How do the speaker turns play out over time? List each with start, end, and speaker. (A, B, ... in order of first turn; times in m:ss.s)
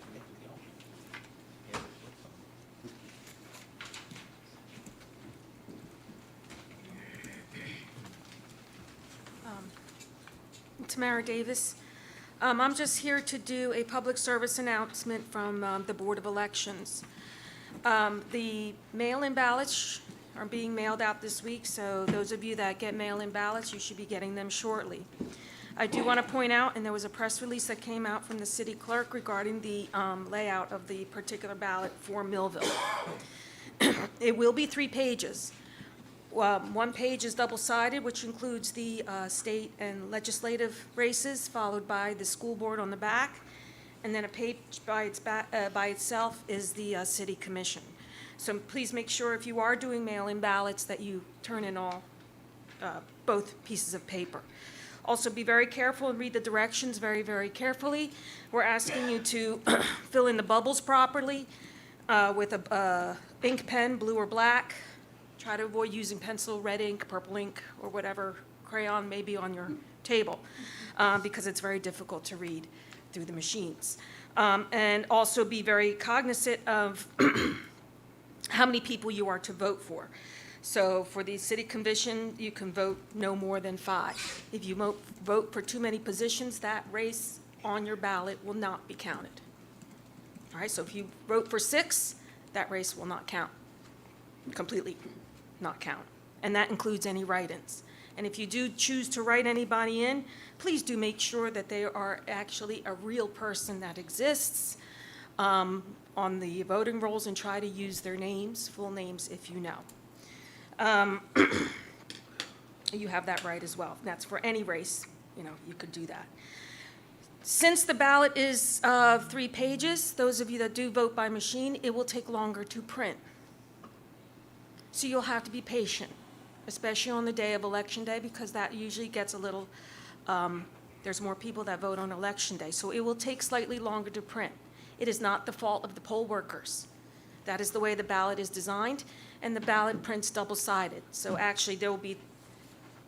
0:09.4-0:09.7 A
0:10.8-0:11.8 A
0:12.4-0:17.0 A
0:17.8-0:25.1 A
0:25.8-0:33.1 A
0:33.8-0:35.5 A
0:36.3-0:43.4 A
0:44.0-0:52.0 A
0:52.8-0:54.4 A
0:55.0-1:01.5 A
1:02.1-1:04.8 A
1:05.4-1:10.4 A
1:11.0-1:17.6 A
1:18.5-1:20.1 A
1:20.6-1:29.4 A
1:30.5-1:33.5 A
1:34.5-1:35.0 A
1:35.6-1:44.8 A
1:45.4-1:49.8 A
1:50.8-1:51.8 A
1:52.9-1:56.3 A
1:57.4-2:03.2 A
2:04.9-2:06.1 A
2:06.7-2:09.7 A
2:10.3-2:16.9 A
2:17.4-2:22.2 A